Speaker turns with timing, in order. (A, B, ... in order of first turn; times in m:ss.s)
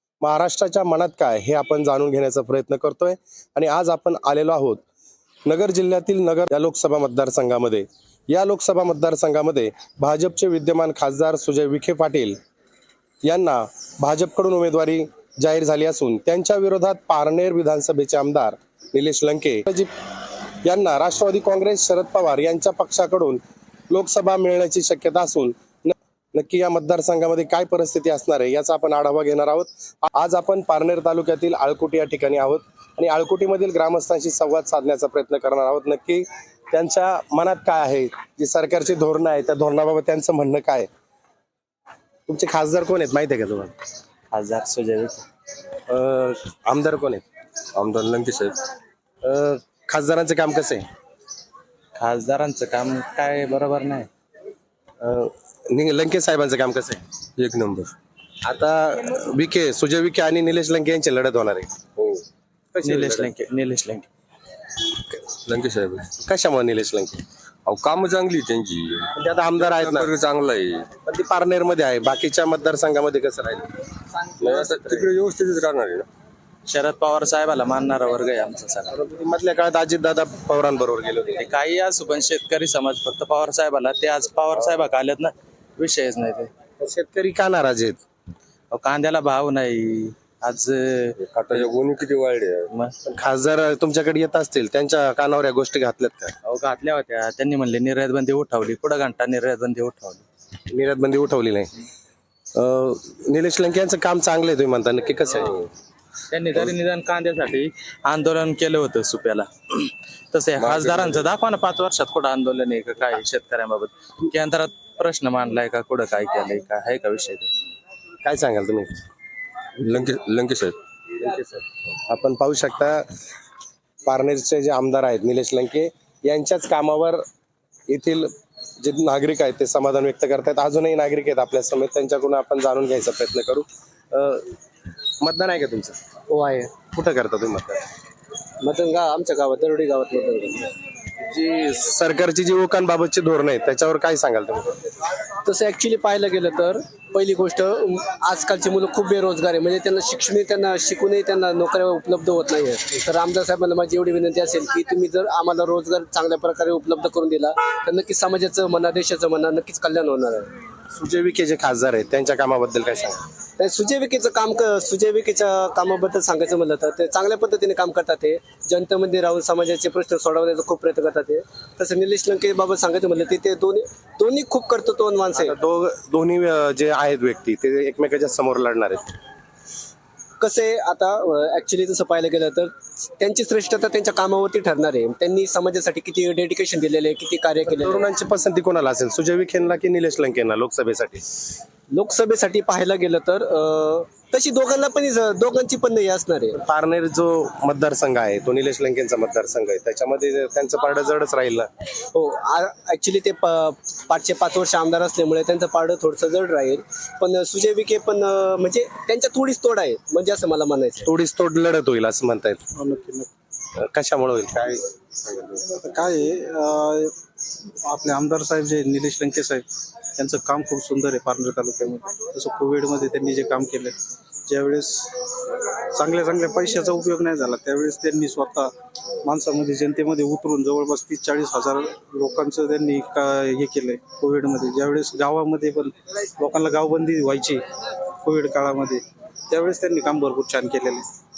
0:00.2-0:04.8 A
0:05.4-0:12.4 A
0:13.2-0:19.9 A
0:20.6-0:40.9 A
0:42.3-0:43.7 A
0:44.3-0:45.2 B
0:45.9-0:47.2 A
0:47.8-0:48.6 C
0:49.2-0:50.8 A
0:52.0-0:54.1 B
0:55.0-0:57.0 A
0:57.4-0:57.9 C
0:58.4-1:01.7 A
1:02.7-1:03.3 A
1:02.8-1:04.1 B
1:05.4-1:06.1 C
1:06.2-1:07.2 A
1:07.7-1:10.9 C
1:09.1-1:10.1 A
1:11.0-1:13.7 A
1:14.4-1:16.0 C
1:16.7-1:19.0 B
1:18.9-1:21.4 A
1:21.4-1:26.5 B
1:26.8-1:28.0 A
1:28.7-1:31.7 B
1:31.2-1:32.7 C
1:33.0-1:36.3 A
1:36.4-1:40.2 B
1:40.7-1:41.7 A
1:42.5-1:45.6 A
1:46.3-1:49.8 B
1:50.3-1:57.5 B
1:50.6-1:51.2 A
1:58.2-1:58.9 A
1:59.8-2:00.8 C
2:02.1-2:03.1 A
2:04.0-2:07.2 A
2:07.9-2:14.5 A
2:15.2-2:16.0 A
2:16.3-2:16.7 D
2:16.8-2:17.8 A
2:18.6-2:20.7 D
2:21.3-2:24.7 A
2:25.4-2:40.5 D
2:40.9-2:43.2 A
2:43.6-2:55.5 D
2:55.4-2:59.1 A
3:00.4-3:08.1 D
3:07.7-3:11.2 A
3:11.9-3:16.6 D
3:16.6-3:21.7 A
3:22.1-3:31.1 D
3:31.0-3:32.6 A
3:32.7-3:33.3 E
3:33.8-3:35.6 A
3:35.7-3:37.1 E
3:37.8-3:39.6 E
3:40.2-3:43.9 E
3:44.4-3:45.1 E
3:45.9-3:48.7 E
3:49.2-3:57.6 E
3:58.2-4:01.0 E